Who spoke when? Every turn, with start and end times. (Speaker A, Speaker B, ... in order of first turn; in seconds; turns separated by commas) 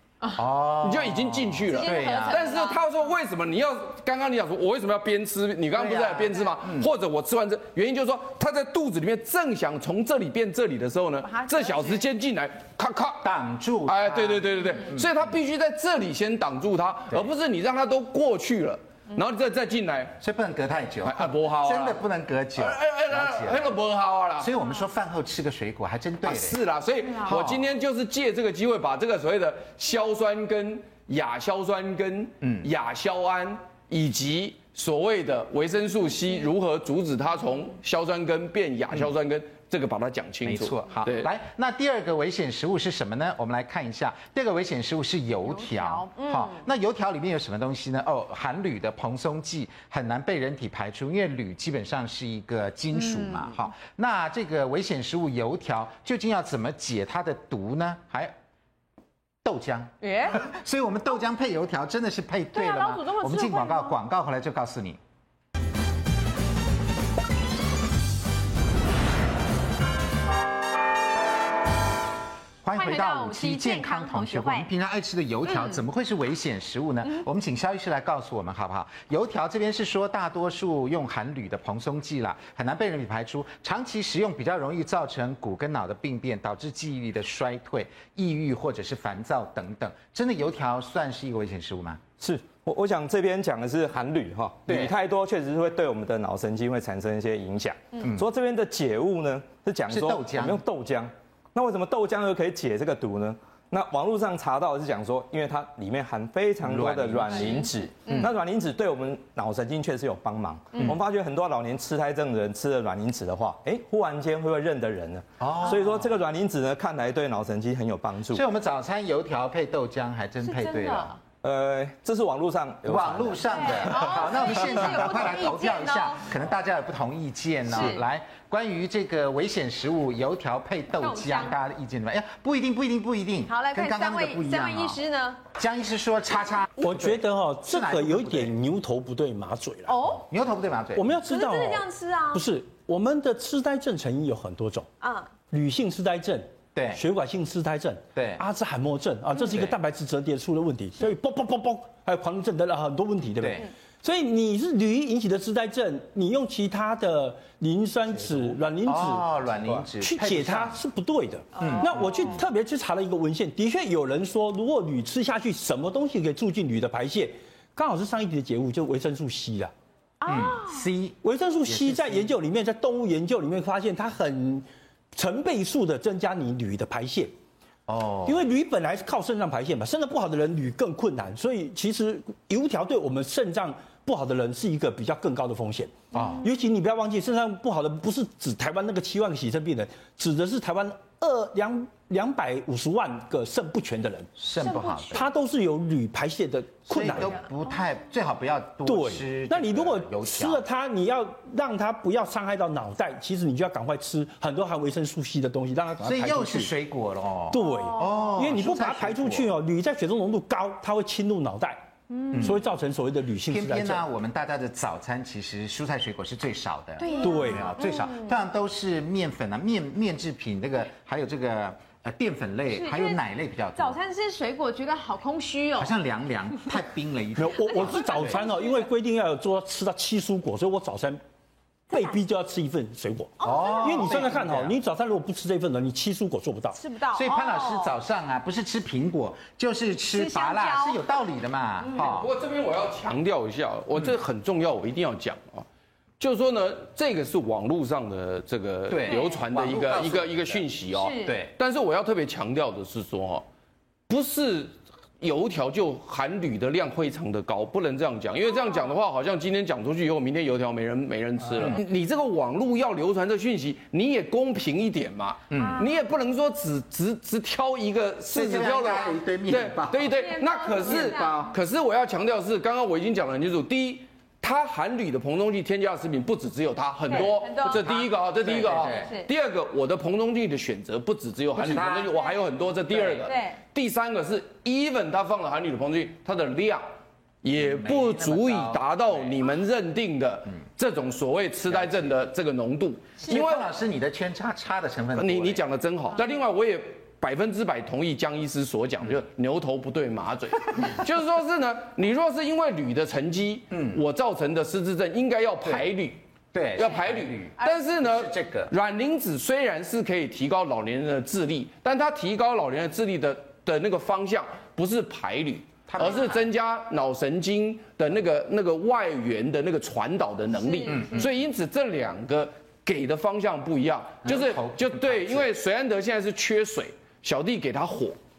Speaker A: 0.3-2.5, Speaker B: 0.8-13.3, Speaker C: 1.7-2.8, Speaker A: 5.7-6.9, Speaker C: 11.3-12.0, Speaker A: 13.2-15.3, Speaker B: 13.8-20.1, Speaker A: 20.2-23.8, Speaker B: 21.0-22.0, Speaker B: 22.6-24.5, Speaker A: 24.4-26.6, Speaker B: 26.2-41.3, Speaker A: 27.2-27.7, Speaker A: 32.4-32.7, Speaker A: 40.4-58.3, Speaker C: 45.5-46.6, Speaker C: 52.9-53.5, Speaker A: 59.4-65.0, Speaker C: 60.0-60.5, Speaker C: 62.5-64.0, Speaker A: 72.6-92.0, Speaker C: 72.7-74.7, Speaker C: 75.5-75.8, Speaker D: 92.2-118.4, Speaker A: 94.7-94.9, Speaker A: 99.9-100.6, Speaker A: 106.6-107.5, Speaker C: 107.3-107.7, Speaker A: 108.1-108.3, Speaker A: 110.7-111.0, Speaker A: 115.4-116.1, Speaker A: 118.3-121.1, Speaker C: 120.4-121.2, Speaker D: 121.4-124.0, Speaker A: 122.8-135.0, Speaker C: 123.5-126.2, Speaker C: 127.7-128.0, Speaker C: 131.0-131.6, Speaker C: 133.5-135.4, Speaker A: 135.6-138.5, Speaker E: 136.8-140.0, Speaker C: 139.9-140.2, Speaker A: 140.2-141.2, Speaker E: 140.9-144.9, Speaker C: 141.3-142.4, Speaker C: 145.0-145.3, Speaker E: 145.5-169.7, Speaker A: 146.7-147.0, Speaker A: 148.1-148.4, Speaker A: 153.4-153.7, Speaker A: 158.8-160.8, Speaker A: 161.6-162.4, Speaker C: 161.6-162.0, Speaker C: 170.2-170.8, Speaker A: 170.3-172.3, Speaker E: 171.2-177.3, Speaker A: 177.9-178.4, Speaker E: 178.2-194.3, Speaker C: 186.1-186.4, Speaker A: 186.1-186.4, Speaker A: 194.4-195.3, Speaker C: 194.6-195.2, Speaker E: 195.1-197.4, Speaker A: 196.9-200.7, Speaker E: 198.8-206.7, Speaker A: 206.0-209.5, Speaker E: 207.5-211.8, Speaker C: 207.6-208.3, Speaker C: 212.1-212.4, Speaker A: 212.3-212.6, Speaker E: 212.3-214.0, Speaker A: 213.5-224.0, Speaker C: 217.0-218.4, Speaker E: 217.2-217.7, Speaker C: 222.7-223.2, Speaker C: 223.8-225.9, Speaker A: 225.8-228.4, Speaker E: 227.3-231.2, Speaker C: 227.7-228.9, Speaker E: 231.9-236.8, Speaker C: 231.9-232.2, Speaker C: 233.4-234.3, Speaker A: 233.4-234.7, Speaker C: 236.7-237.9, Speaker A: 237.1-242.3, Speaker C: 240.1-241.2, Speaker B: 241.9-245.7, Speaker B: 246.2-253.4, Speaker A: 248.9-250.6, Speaker C: 249.1-249.4, Speaker C: 250.9-251.4, Speaker A: 251.2-251.5, Speaker B: 254.1-286.9, Speaker C: 258.5-258.9, Speaker A: 261.5-261.8, Speaker A: 265.5-265.9, Speaker C: 265.5-265.9, Speaker A: 268.3-270.2, Speaker C: 268.7-269.2, Speaker C: 270.1-271.5, Speaker A: 270.8-271.5, Speaker C: 277.1-277.9, Speaker A: 277.1-279.1, Speaker C: 278.8-279.3, Speaker A: 281.5-282.3, Speaker A: 282.9-283.2, Speaker C: 283.2-283.6, Speaker B: 287.4-293.7, Speaker A: 287.5-289.4, Speaker A: 291.7-292.1, Speaker A: 293.2-295.6, Speaker B: 295.1-306.2, Speaker A: 303.7-304.0, Speaker A: 306.5-308.7, Speaker B: 306.7-328.2, Speaker C: 307.6-307.8, Speaker A: 315.9-316.4, Speaker C: 320.5-321.2, Speaker A: 320.9-321.3, Speaker A: 324.2-325.5